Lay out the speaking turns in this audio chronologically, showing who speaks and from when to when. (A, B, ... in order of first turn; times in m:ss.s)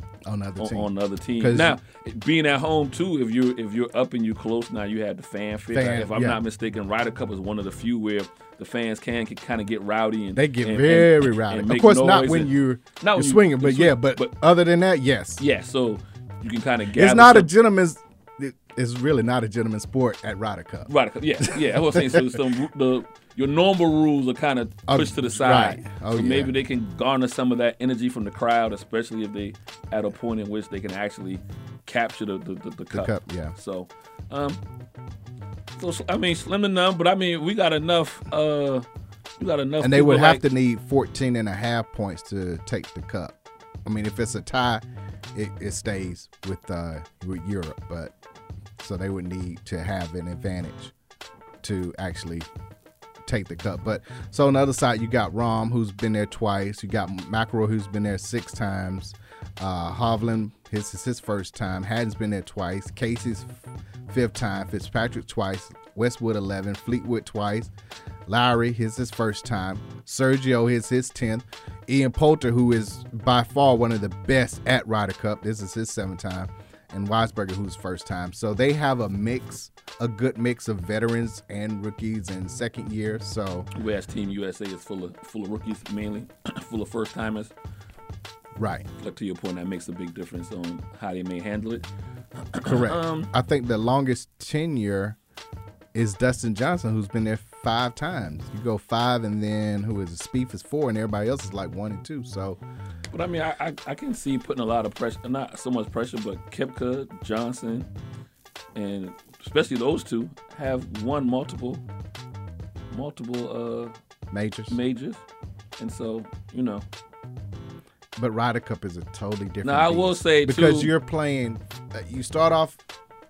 0:00.2-0:01.8 A
0:00.6-0:14.3 B
0:05.7-0:06.4 A
0:10.3-0:15.4 A
0:15.4-0:17.5 B
0:16.9-0:22.4 A
0:20.9-0:34.6 B
0:24.9-0:26.5 A
0:32.9-0:33.5 A
0:35.8-0:38.8 B
0:39.4-0:40.4 B
0:39.8-0:48.1 A
0:48.8-0:50.9 A
0:51.6-0:52.5 A
0:53.2-1:07.7 A
1:08.2-1:23.7 A
1:23.7-1:27.5 B
1:28.6-1:28.9 A
1:29.0-1:31.8 B
1:32.5-1:33.3 B
1:32.6-1:35.2 A
1:35.9-1:42.6 A
1:43.1-1:47.9 B
1:48.7-1:51.8 B
1:52.9-1:53.9 B
1:54.3-1:54.8 A
1:54.7-1:55.2 B
1:55.8-1:56.8 B
1:58.2-2:02.8 A
1:59.6-2:00.9 B